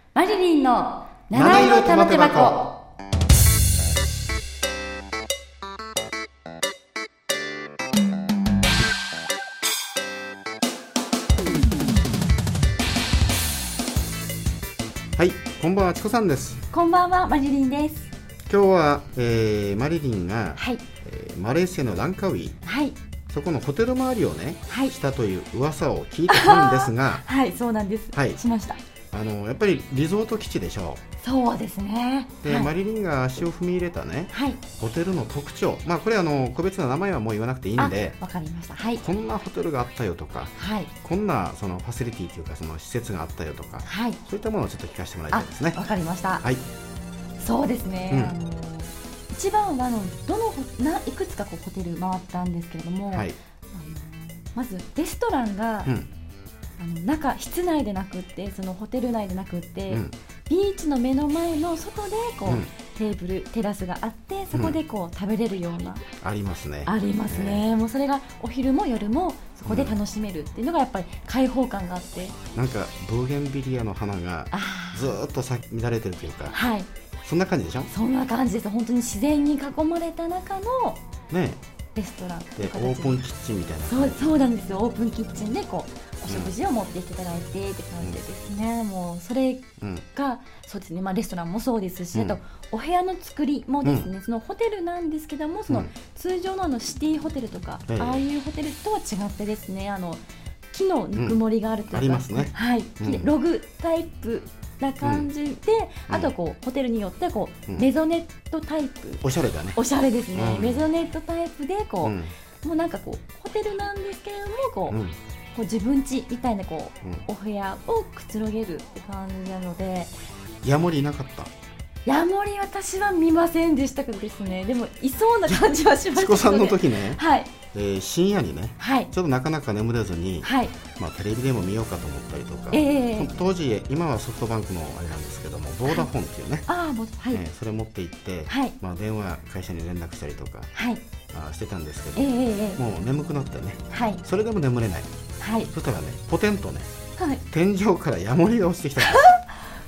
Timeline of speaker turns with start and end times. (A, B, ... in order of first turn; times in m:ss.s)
0:00.1-0:02.7 A
0:01.3-0:02.6 B
0:15.2-0:16.6 B
0:16.7-0:18.1 A
0:18.5-0:22.6 B
0:20.6-0:20.8 A
0:22.6-0:23.0 A
0:23.3-0:27.2 B
0:24.7-0:24.9 A
0:26.3-0:28.8 A
0:28.1-0:28.4 B
0:29.1-0:31.0 B
0:31.2-0:32.7 A
0:32.4-0:38.2 B
0:34.3-0:34.6 A
0:37.8-0:39.0 A
0:39.0-0:45.8 B
0:40.6-0:40.9 A
0:43.8-0:44.2 A
0:45.3-0:46.4 A
0:47.4-0:55.9 A
0:48.1-0:48.4 B
0:53.1-0:53.4 B
0:56.8-1:06.0 A
1:02.4-1:02.7 B
1:06.2-1:07.6 B
1:06.8-1:12.4 A
1:09.6-1:10.0 B
1:12.5-1:16.6 B
1:14.5-1:15.2 A
1:16.5-1:16.9 A
1:17.2-1:17.9 B
1:17.9-1:21.0 A
1:21.3-1:21.6 B
1:21.9-1:23.2 A
1:22.6-1:24.3 B
1:23.9-1:40.2 A
1:29.8-1:30.0 B
1:37.9-1:38.2 B
1:40.7-1:49.2 A
1:41.9-1:43.3 B
1:45.0-1:45.3 B
1:49.2-1:49.8 B
1:49.7-1:55.0 A
1:50.3-1:50.9 B
1:52.0-1:52.3 B
1:54.9-1:55.2 B
1:55.5-2:00.1 A
2:00.6-2:01.5 B
2:02.0-2:07.5 A
2:05.5-2:07.2 B
2:07.7-2:16.6 B
2:08.8-2:09.1 A
2:10.4-2:10.8 A
2:12.7-2:13.3 A
2:16.7-2:17.4 A
2:17.3-2:20.7 B
2:18.5-2:18.8 A
2:20.7-2:21.0 A
2:21.3-2:25.1 B
2:22.2-2:22.8 A
2:23.9-2:24.2 A
2:25.4-2:25.7 A
2:25.7-2:26.9 B
2:27.5-2:29.4 B
2:29.0-2:29.4 A